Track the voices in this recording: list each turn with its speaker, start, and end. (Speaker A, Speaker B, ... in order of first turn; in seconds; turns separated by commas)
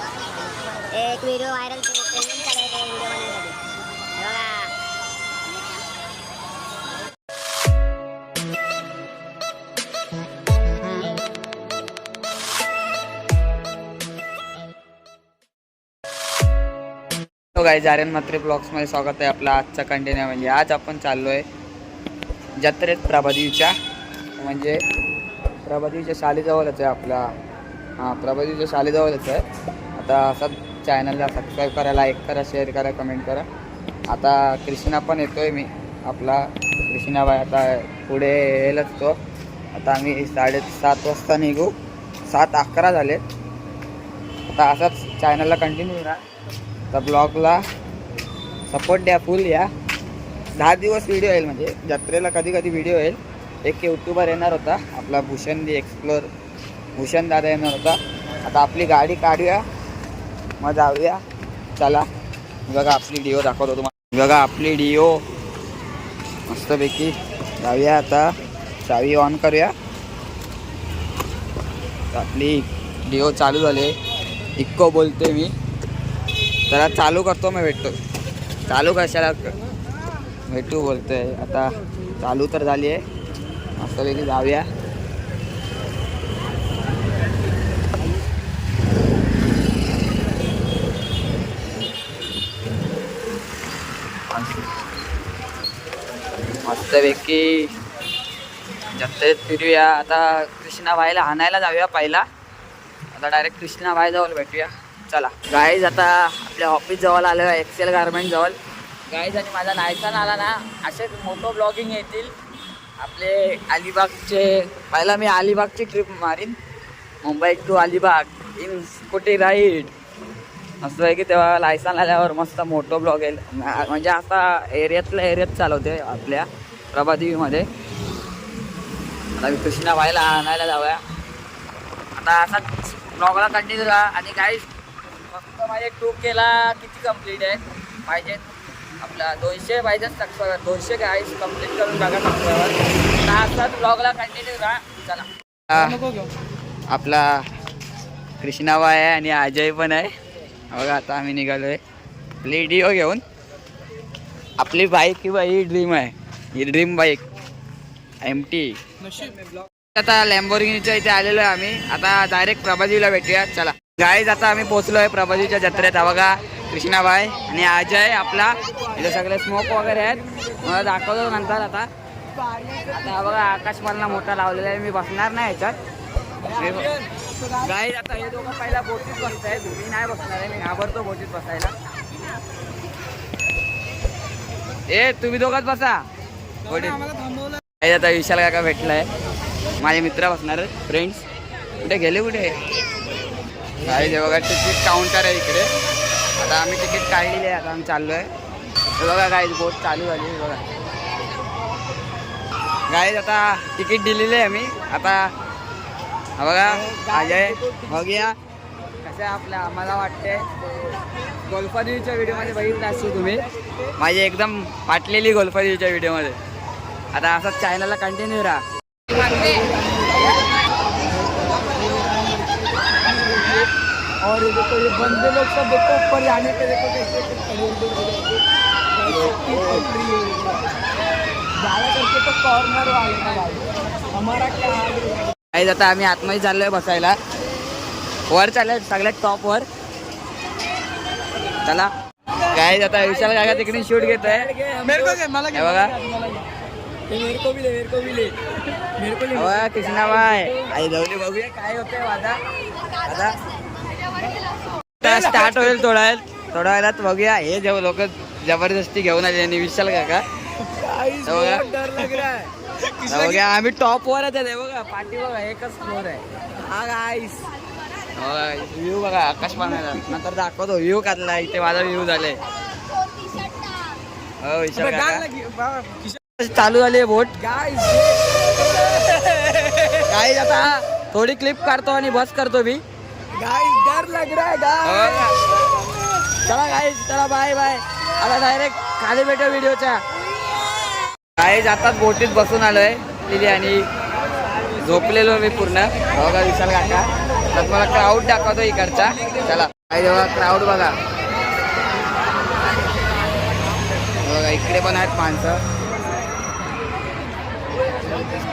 Speaker A: 0.9-3.6, Speaker A: 4.2-4.7, Speaker B: 17.5-21.4, Speaker B: 22.6-23.7, Speaker B: 24.4-24.8, Speaker B: 25.6-27.3, Speaker B: 28.0-29.4, Speaker B: 29.9-33.5, Speaker B: 34.1-39.2, Speaker B: 39.7-41.7, Speaker B: 42.3-43.2, Speaker B: 44.5-46.2, Speaker B: 46.9-47.6, Speaker B: 48.7-49.7, Speaker B: 50.6-56.3, Speaker B: 57.0-59.6, Speaker B: 60.6-61.2, Speaker B: 61.8-62.0, Speaker B: 62.7-65.2, Speaker B: 66.5-68.3, Speaker B: 68.8-69.7, Speaker B: 72.1-73.9, Speaker B: 74.6-75.5, Speaker B: 76.7-78.0, Speaker B: 78.7-79.5, Speaker B: 80.5-83.0, Speaker B: 83.8-84.7, Speaker B: 94.3-94.7, Speaker B: 96.6-97.7, Speaker B: 98.9-102.2, Speaker B: 103.1-108.6, Speaker B: 109.1-112.3, Speaker B: 113.0-116.6, Speaker B: 117.2-119.9, Speaker B: 120.8-127.7, Speaker B: 129.3-131.0, Speaker B: 132.2-134.7, Speaker B: 135.3-138.4, Speaker B: 139.0-146.0, Speaker C: 145.8-146.3, Speaker B: 146.9-147.4, Speaker B: 148.4-150.1, Speaker B: 150.7-151.8, Speaker B: 152.4-153.2, Speaker B: 154.6-157.2, Speaker B: 158.2-158.8, Speaker C: 159.0-159.4, Speaker B: 159.9-171.9, Speaker C: 172.3-173.1, Speaker B: 172.9-175.8, Speaker B: 176.5-176.9, Speaker C: 176.5-177.3, Speaker B: 177.6-181.7, Speaker B: 184.9-186.0, Speaker B: 186.7-187.1, Speaker C: 187.1-187.4, Speaker B: 187.8-189.1, Speaker B: 189.8-191.2, Speaker B: 191.8-192.6, Speaker B: 193.8-195.7, Speaker B: 196.4-198.3, Speaker B: 199.0-200.6, Speaker B: 202.9-205.3, Speaker B: 206.4-208.3, Speaker C: 206.7-208.1, Speaker B: 209.0-210.4, Speaker B: 211.5-213.4, Speaker C: 213.3-213.8, Speaker B: 214.0-216.3, Speaker B: 217.1-218.6, Speaker C: 219.2-220.4, Speaker C: 221.2-223.7, Speaker C: 224.2-228.4, Speaker C: 228.9-230.7, Speaker C: 231.6-235.3, Speaker B: 235.5-237.2, Speaker B: 238.3-239.7, Speaker B: 241.6-241.9, Speaker C: 242.4-246.5, Speaker B: 242.5-245.9, Speaker C: 247.1-250.7, Speaker B: 247.2-248.1, Speaker B: 249.3-252.4, Speaker B: 253.0-253.3, Speaker B: 255.0-260.2, Speaker C: 255.0-255.8, Speaker C: 260.6-263.4, Speaker B: 261.2-262.2, Speaker B: 263.1-266.2, Speaker C: 266.6-267.4, Speaker B: 268.2-272.4, Speaker B: 274.4-275.2, Speaker C: 274.7-276.2, Speaker B: 276.4-277.3, Speaker C: 277.4-280.1, Speaker B: 280.0-282.8, Speaker C: 283.3-285.3, Speaker B: 284.8-285.4, Speaker B: 286.4-290.0, Speaker B: 291.4-293.9, Speaker B: 294.8-301.0, Speaker B: 304.2-305.6